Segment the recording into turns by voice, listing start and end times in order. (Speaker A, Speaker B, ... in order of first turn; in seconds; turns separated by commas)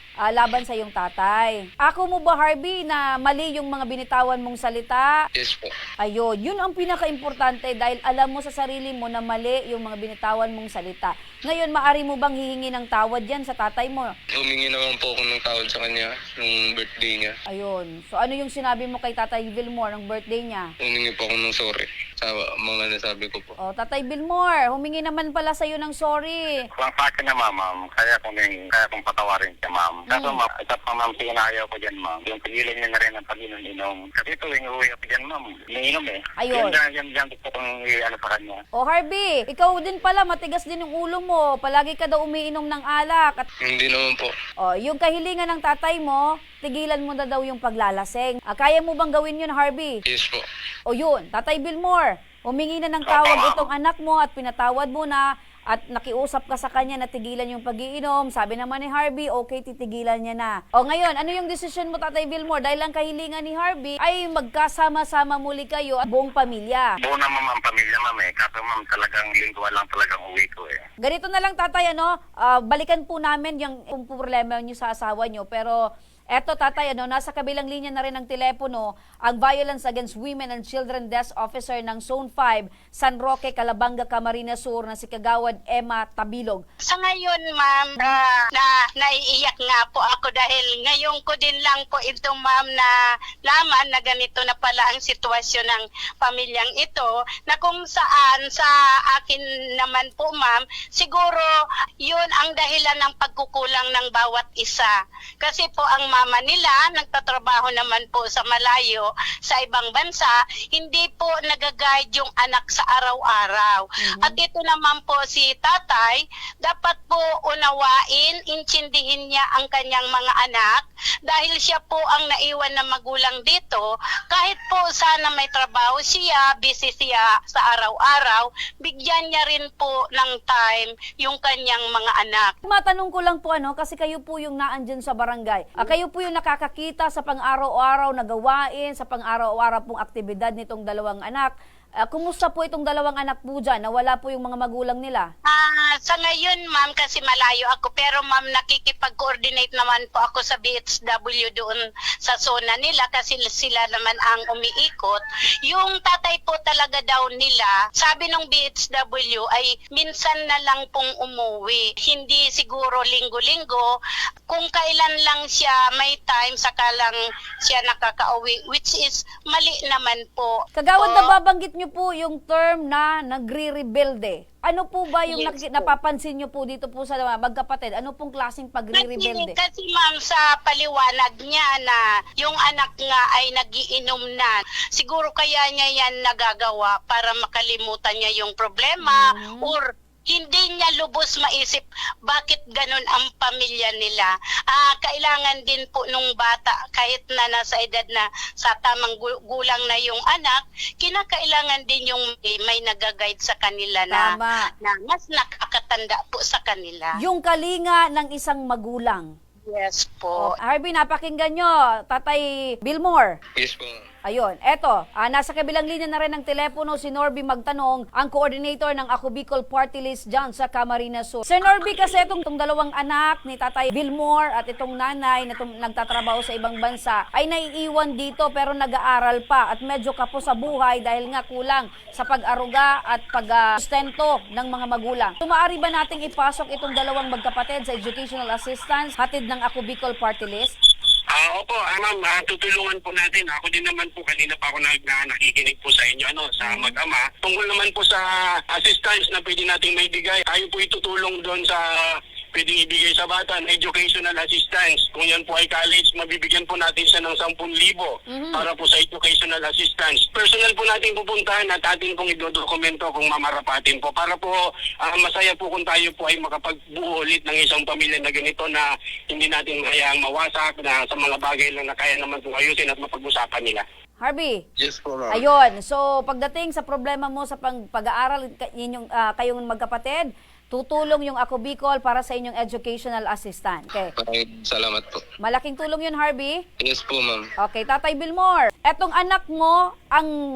Speaker A: 0.3-5.1, Speaker B: 5.3-5.7, Speaker A: 6.0-14.1, Speaker B: 14.3-17.4, Speaker A: 17.5-20.7, Speaker B: 20.8-23.5, Speaker A: 23.6-26.6, Speaker C: 26.7-38.6, Speaker A: 30.1-30.4, Speaker A: 36.4-36.8, Speaker A: 38.8-43.5, Speaker B: 43.6-44.3, Speaker A: 44.6-50.0, Speaker B: 50.0-50.5, Speaker A: 50.9-66.9, Speaker C: 53.0-53.7, Speaker C: 67.0-70.8, Speaker A: 71.0-75.8, Speaker A: 76.3-86.6, Speaker D: 86.8-92.9, Speaker D: 93.4-101.5, Speaker D: 102.0-132.5, Speaker A: 114.0-114.4, Speaker A: 132.6-141.5, Speaker A: 142.0-145.3, Speaker D: 145.4-163.9, Speaker D: 164.5-171.3, Speaker A: 170.8-179.5, Speaker D: 175.3-175.9, Speaker D: 178.9-204.2, Speaker A: 189.0-189.7, Speaker A: 204.1-204.7, Speaker D: 204.8-207.2, Speaker A: 207.2-209.3, Speaker D: 209.6-210.5, Speaker A: 210.4-213.3, Speaker B: 213.6-214.0, Speaker A: 214.3-240.7, Speaker E: 241.3-273.9, Speaker A: 246.6-247.0, Speaker A: 258.3-258.6, Speaker A: 274.2-274.6, Speaker B: 274.8-275.5, Speaker A: 275.3-284.1, Speaker B: 284.1-285.2, Speaker A: 285.4-286.6, Speaker B: 286.8-287.5, Speaker A: 287.6-290.3